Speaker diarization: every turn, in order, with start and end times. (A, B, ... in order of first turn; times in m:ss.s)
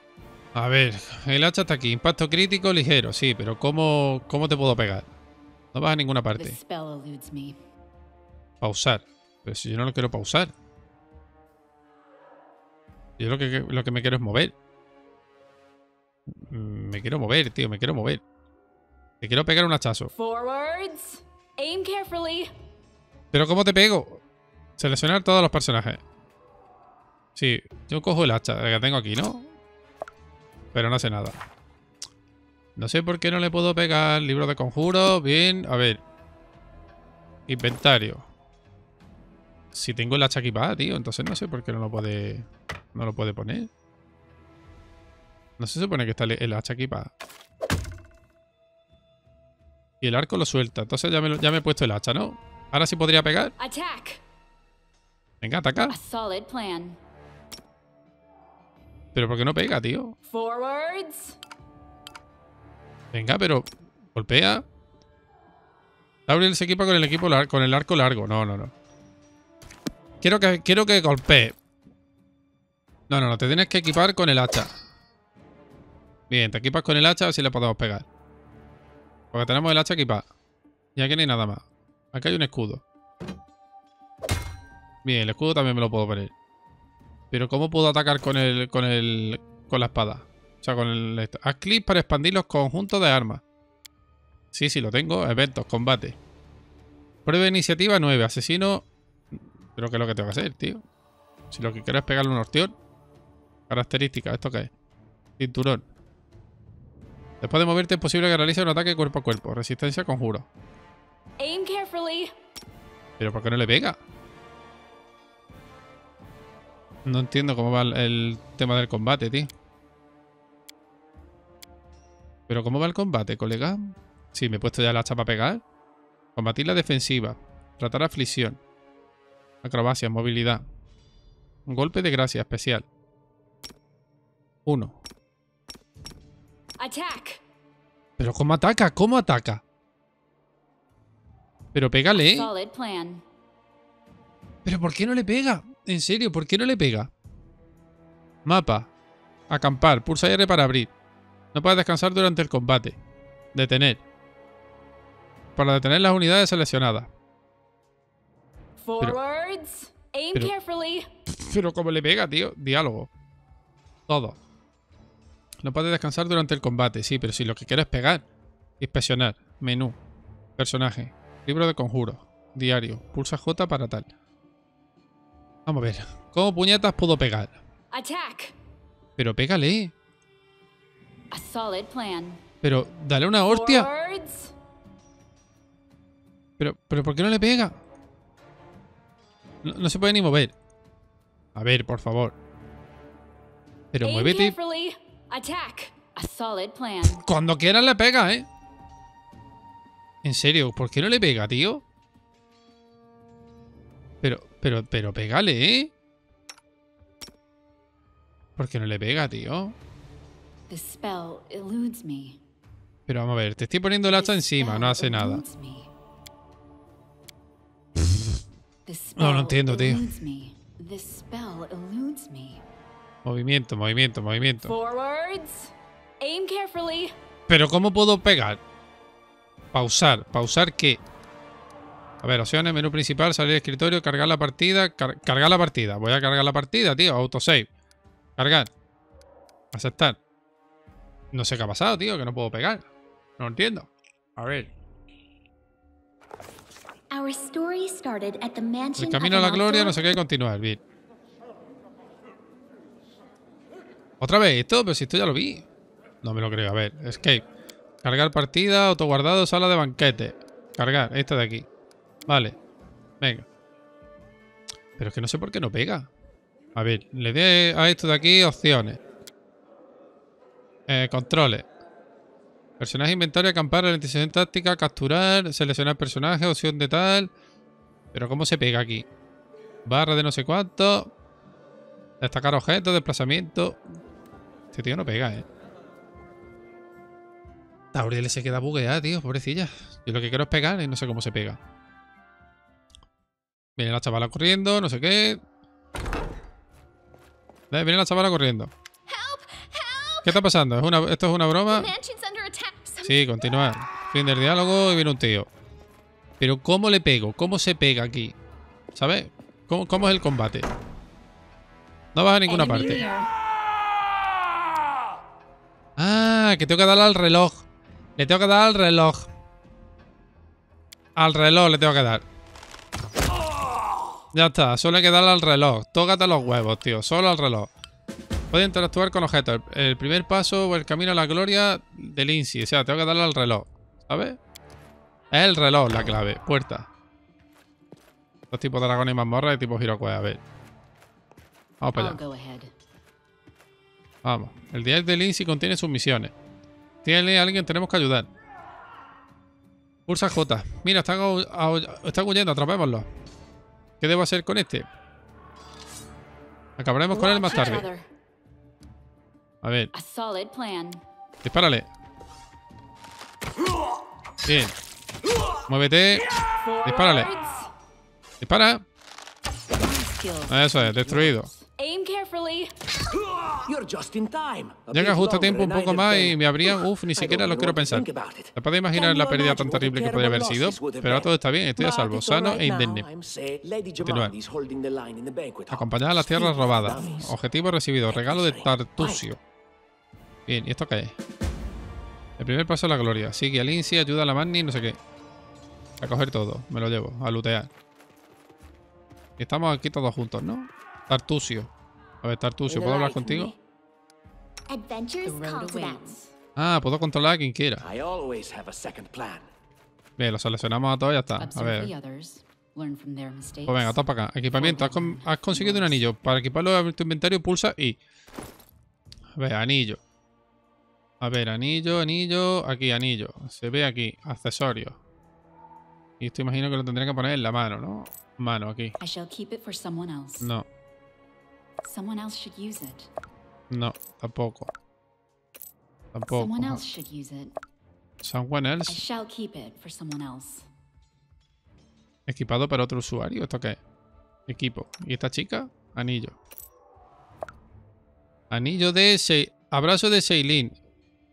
0:00.6-0:05.1 A
0:05.7-0:06.6 A
0:06.4-0:07.6 B
0:08.6-0:10.5 A
0:13.2-0:14.5 A
0:16.4-0:18.2 A
0:19.2-0:20.1 A
0:20.1-0:22.5 B
0:23.3-0:24.2 A
0:24.8-0:26.0 A
0:27.4-0:29.5 A
0:30.7-0:31.4 A
0:32.8-0:36.0 A
0:37.5-0:38.2 A
0:39.7-0:43.7 A
0:45.6-0:47.1 A
0:50.0-0:53.5 A
0:53.6-0:54.2 B
0:55.4-0:56.0 A
0:55.9-0:57.0 B
0:59.2-1:00.2 A
1:00.3-1:01.4 B
1:03.1-1:04.6 A
1:06.3-1:08.7 A
1:10.2-1:11.6 A
1:13.1-1:14.7 A
1:16.3-1:18.1 A
1:19.3-1:20.3 A
1:21.0-1:22.8 A
1:25.0-1:26.3 A
1:27.3-1:33.4 A
1:34.5-1:36.2 A
1:37.3-1:40.8 A
1:41.5-1:42.8 A
1:43.7-1:44.7 A
1:45.4-1:45.9 A
1:47.4-1:50.5 A
1:51.4-1:52.3 B
1:53.2-1:54.0 A
1:57.0-1:59.5 A
2:02.5-2:05.6 A
2:06.4-2:08.6 A
2:09.6-2:10.6 A
2:11.7-2:12.9 A
2:14.7-2:15.0 A
2:16.8-2:17.4 B
2:18.2-2:19.6 A
2:21.7-2:22.5 A
2:22.1-2:23.2 B
2:24.6-2:27.1 A
2:28.4-2:28.9 A
2:29.5-2:30.9 A
2:31.5-2:33.0 A
2:33.5-2:34.0 A
2:35.6-2:37.1 A
2:38.8-2:41.1 B
2:41.3-2:43.1 A
2:44.1-2:44.4 A
2:45.6-2:48.2 A
2:48.8-2:50.0 A
2:50.6-2:54.1 A
2:55.7-2:57.6 A
2:57.9-2:58.5 B
2:59.2-2:59.9 A
3:01.3-3:02.4 B
3:02.6-3:03.9 A
3:03.4-3:04.5 B
3:06.6-3:07.8 A
3:09.6-3:10.5 A
3:11.6-3:12.4 A
3:13.9-3:14.6 A
3:14.0-3:17.2 B
3:17.2-3:18.5 A
3:20.2-3:21.8 A
3:24.2-3:25.9 A
3:28.6-3:29.8 A
3:30.7-3:32.4 B
3:33.1-3:35.4 A
3:34.0-3:35.9 B
3:38.9-3:42.6 B
3:39.2-3:40.0 A
3:43.2-3:44.7 A
3:44.6-3:47.1 B
3:47.5-3:48.6 A
3:49.7-3:51.0 A
3:52.2-3:57.7 A
3:58.4-3:58.7 A
3:59.7-4:00.2 A
4:01.3-4:02.9 A
4:03.4-4:04.7 A
4:07.1-4:10.0 C
4:09.0-4:10.8 A
4:14.2-4:15.6 A
4:16.2-4:17.4 A
4:18.0-4:21.6 A
4:22.3-4:22.6 A
4:25.0-4:26.1 A
4:26.8-4:29.0 A
4:30.9-4:31.7 A
4:32.8-4:37.3 A
4:38.1-4:39.1 A
4:39.9-4:41.1 A
4:42.2-4:43.8 A
4:44.7-4:45.4 A
4:47.9-4:51.6 A
4:53.8-4:55.4 A
4:57.7-4:58.7 A
4:59.1-5:00.4 C
5:00.2-5:01.9 A
5:01.7-5:03.2 C
5:03.0-5:05.5 A
5:06.4-5:08.4 A
5:09.0-5:10.7 A
5:12.2-5:13.0 A
5:12.5-5:13.3 B
5:16.0-5:17.6 A
5:18.2-5:19.3 A
5:21.2-5:22.2 A
5:24.3-5:27.7 A
5:28.5-5:34.4 A
5:35.3-5:36.9 A
5:38.5-5:40.4 A
5:41.8-5:42.2 A
5:42.0-5:42.7 B
5:44.2-5:46.3 A
5:47.0-5:48.3 A
5:50.1-5:53.1 A
5:54.0-5:54.9 A
5:56.8-5:57.9 A
5:57.1-5:58.1 B
5:59.6-5:59.9 A
5:59.9-6:01.0 B
6:01.4-6:01.9 A
6:04.4-6:04.8 A
6:05.7-6:06.3 A
6:06.6-6:07.7 B
6:06.8-6:07.3 A
6:08.4-6:08.8 A
6:09.7-6:12.7 B
6:10.5-6:11.5 A
6:13.6-6:27.4 D
6:14.9-6:23.1 A
6:24.0-6:24.3 A
6:25.7-6:29.4 A
6:28.1-6:29.3 D
6:30.5-6:31.2 A
6:32.4-6:35.0 A
6:36.0-6:37.7 A
6:39.4-6:41.7 A
6:42.2-6:43.5 A
6:42.7-6:43.6 D
6:44.7-6:46.2 C
6:45.2-6:46.3 B
6:46.6-6:47.8 A
6:47.8-6:49.5 D
6:50.2-6:51.9 A
6:51.4-6:54.0 B
6:53.7-6:58.0 A
6:54.5-6:56.0 B
6:59.4-7:00.0 A
7:01.2-7:05.0 A
7:06.2-7:09.0 A
7:09.0-7:10.5 B
7:11.8-7:13.1 B
7:13.7-7:14.7 A
7:16.1-7:16.8 A
7:16.3-7:17.5 B
7:18.2-7:19.0 A
7:18.9-7:20.7 B
7:22.3-7:23.8 A
7:24.5-7:26.4 A
7:28.5-7:30.7 A